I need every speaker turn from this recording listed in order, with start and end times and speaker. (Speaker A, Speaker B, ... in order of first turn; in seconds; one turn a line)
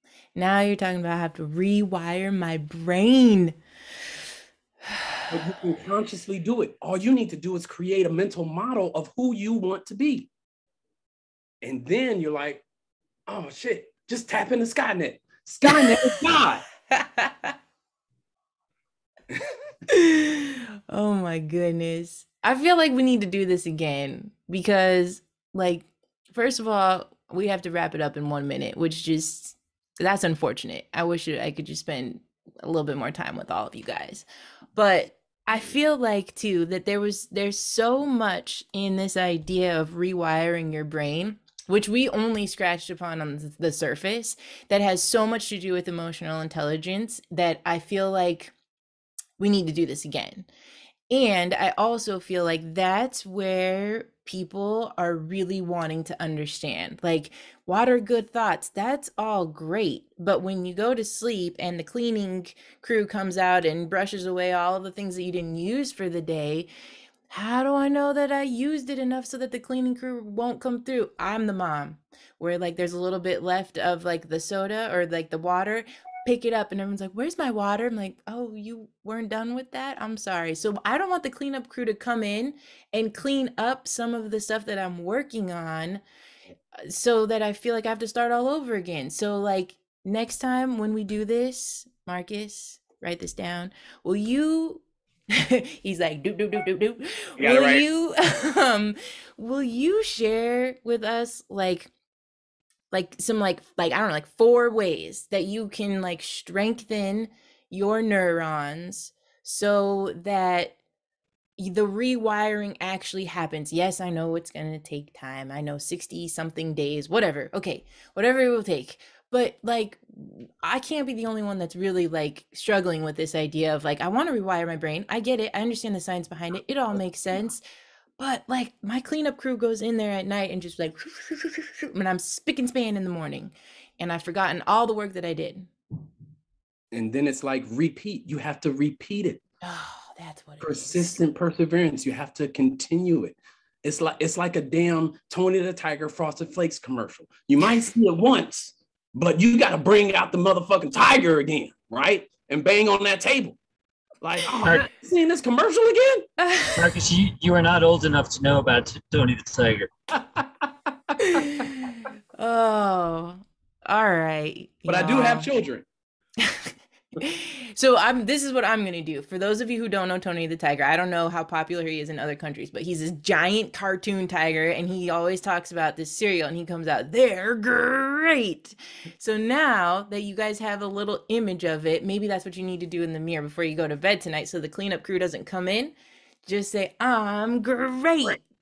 Speaker A: 0.3-3.5
Speaker B: 5.3-10.3
Speaker B: 11.6-12.6
Speaker B: 13.3-16.6
Speaker A: 15.7-16.2
Speaker A: 16.9-17.5
Speaker A: 19.9-48.5
Speaker A: 49.4-50.5
Speaker A: 51.1-66.7
Speaker A: 67.3-86.0
Speaker A: 86.8-101.9
Speaker B: 97.4-97.8
Speaker A: 102.9-110.7
Speaker A: 111.6-127.6
Speaker A: 128.2-135.7
Speaker B: 136.9-139.4
Speaker A: 139.6-141.1
Speaker B: 140.6-153.6
Speaker B: 154.2-156.3
Speaker C: 154.6-154.9
Speaker A: 156.4-156.9
Speaker C: 156.8-159.9
Speaker B: 160.2-161.1
Speaker A: 161.3-165.5
Speaker B: 164.8-165.8
Speaker A: 166.4-185.9
Speaker A: 186.4-188.4